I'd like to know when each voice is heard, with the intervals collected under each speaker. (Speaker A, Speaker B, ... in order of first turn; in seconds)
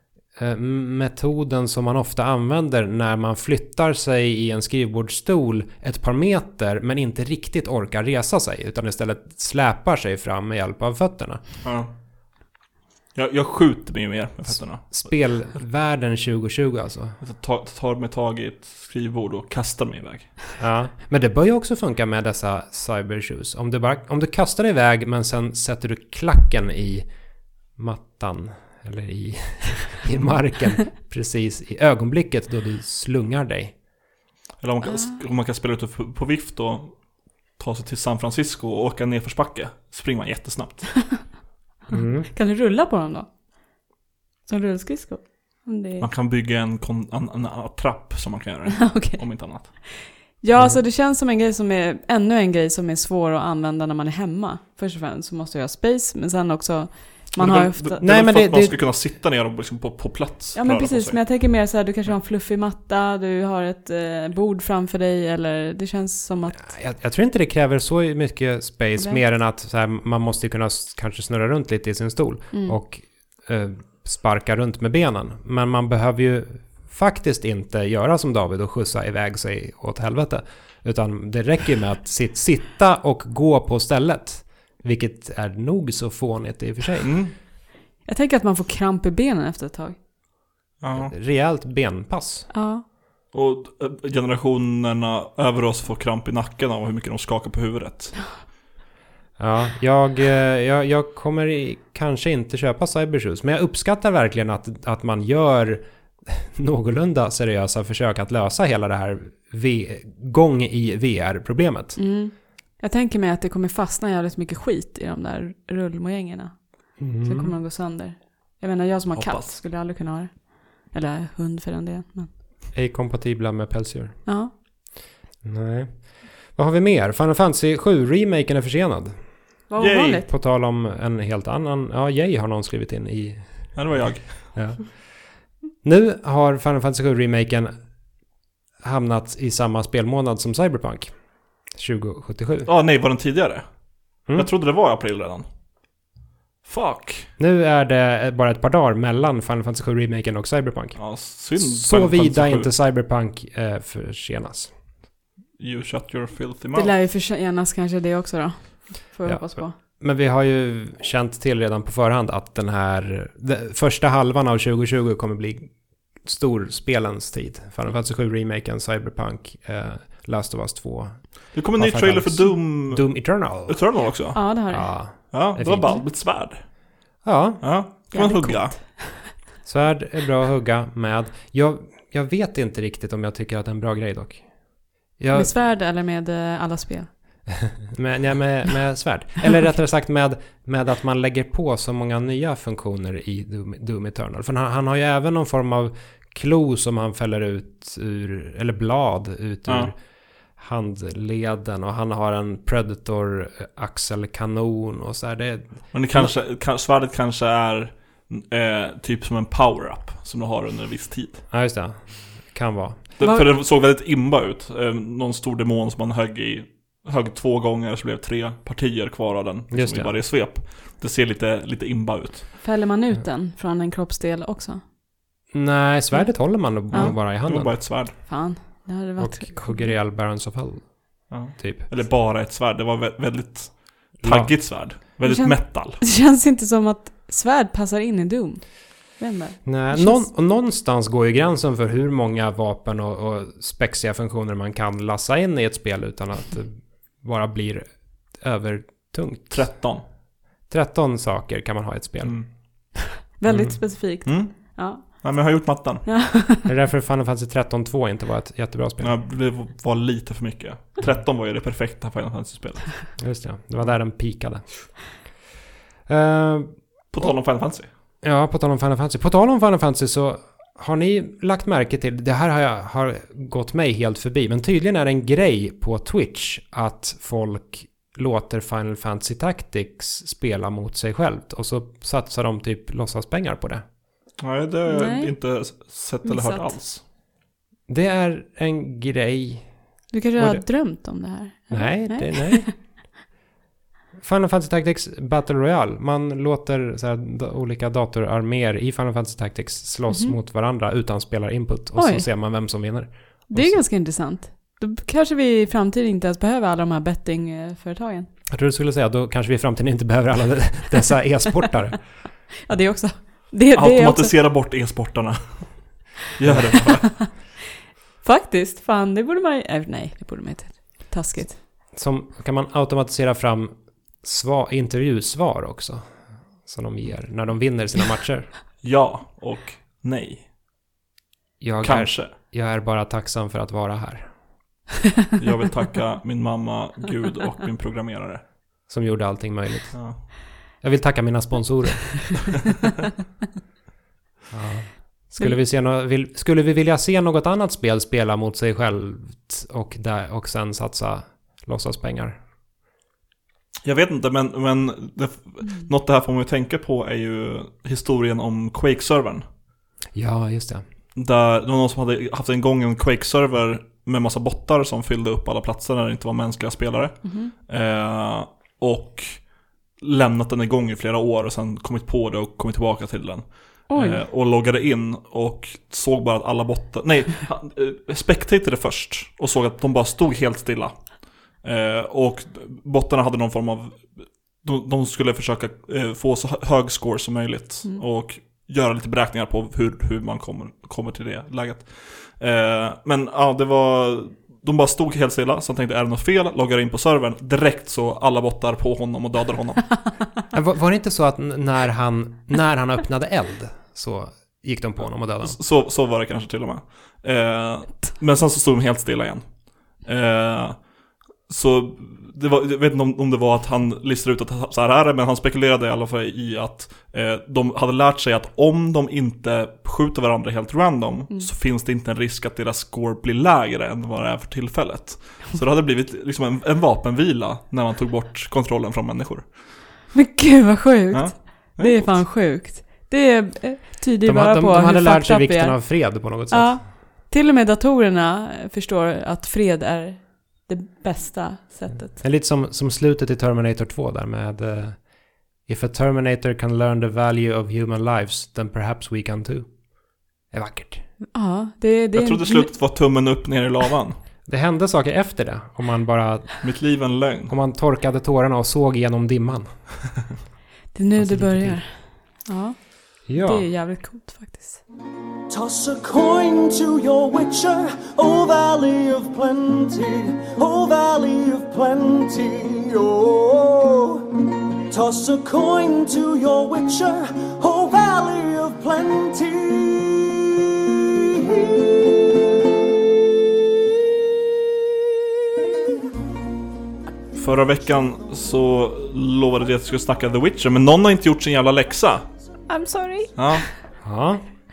Speaker A: 0.3-11.6, 14.6-17.2, 20.6-33.8, 41.9-42.3, 50.5-50.8, 58.0-58.8, 66.5-87.2, 91.0-92.5, 99.4-112.0, 117.0-117.6, 122.7-124.6, 125.4-129.6, 130.3-138.2, 138.8-142.7, 147.4-154.7, 159.2-174.0, 174.7-176.0, 177.2-177.7, 179.7-185.6, 187.7-206.3, 211.5-213.2, 219.7-220.2, 225.5-228.2, 229.2-231.9, 234.2-234.6, 239.7-249.8, 250.7-252.9, 253.5-253.8, 256.6-259.2, 263.2-265.4, 266.1-267.3, 268.2-283.8, 287.9-290.6, 291.7-293.0, 294.2-303.8, 308.5-312.5, 316.4-316.7, 321.9-328.5, 331.6-334.4, 338.9-342.6, 344.5-352.4, 360.1-360.8, 400.5-405.6, 434.2-436.9, 441.9-451.1, 454.5-460.3, 461.2-462.1, 463.3-463.7, 494.0-494.4
Speaker B: 11.6-11.9, 13.2-15.5, 17.2-20.5, 34.6-41.3, 46.0-50.1, 57.4-62.1, 87.0-87.3, 90.8-91.1, 93.3-98.4, 119.1-119.5, 129.8-130.2, 133.8-134.6, 142.7-145.5, 146.6-147.3, 151.0-152.7, 155.6-156.9, 171.5-177.0, 177.6-179.0, 199.7-199.9, 205.9-211.4, 213.2-222.6, 226.9-228.2, 231.3-236.0, 249.5-250.0, 254.2-256.1, 259.0-263.2, 267.1-267.9, 284.4-287.0, 313.7-317.4, 328.8-330.5, 331.8-332.3, 335.4-338.4, 339.9-340.2, 353.8-359.4, 361.1-400.2, 405.2-429.6, 431.1-432.3, 452.1-454.2, 456.6-457.5, 487.4-492.3, 493.4-493.7
Speaker C: 34.9-35.2, 42.3-43.3, 44.5-46.1, 48.8-58.0, 60.5-66.6, 69.0-69.2, 72.5-72.8, 88.0-90.0, 92.5-92.8, 112.0-122.3, 124.3-124.5, 129.7-130.3, 156.7-159.8, 174.3-176.0, 178.1-179.3, 185.3-187.5, 213.2-213.5, 222.6-224.8, 226.1-227.2, 228.1-229.9, 235.2-240.3, 253.3-256.6, 284.9-285.6, 286.2-286.8, 290.1-292.7, 300.1-300.4, 302.0-302.7, 303.5-308.3, 312.6-314.3, 317.2-317.5, 318.2-321.6, 367.2-367.5, 373.9-374.2, 430.1-442.2, 451.3-452.7, 460.9-464.8, 492.7-493.8
Speaker D: 465.5-480.5